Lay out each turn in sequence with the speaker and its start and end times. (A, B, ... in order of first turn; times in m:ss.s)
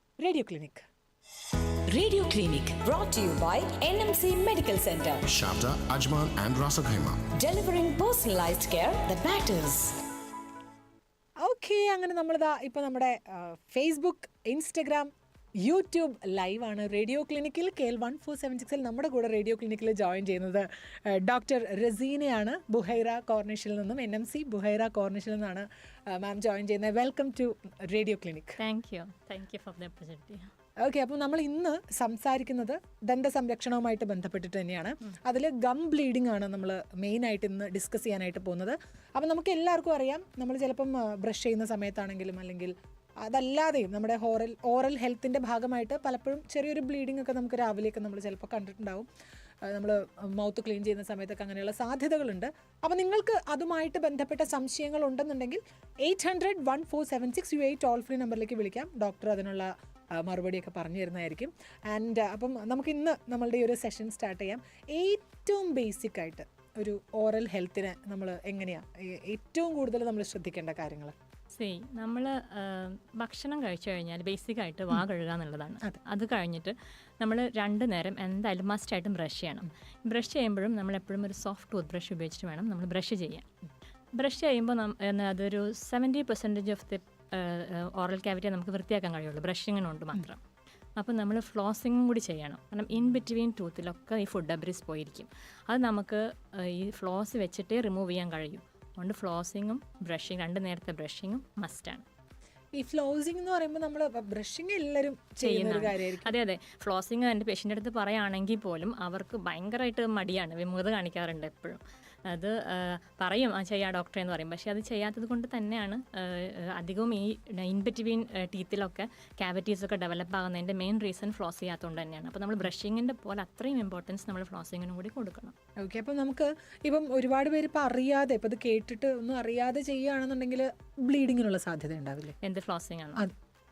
0:00.2-0:00.8 A
0:01.9-0:05.2 B
0:05.3-0:07.3 C
0:07.4-0:10.0 B
0:11.4-0:15.1 A
0:15.6-0:28.6 A
0:28.6-0:30.5 D
0:30.8-0:49.1 A
0:49.6-1:11.1 A
1:11.5-1:23.4 D
1:24.2-1:30.4 D
1:31.0-1:42.0 D
1:42.8-1:46.3 A
1:45.4-2:05.6 D
2:05.8-2:12.3 A
2:12.4-2:13.2 D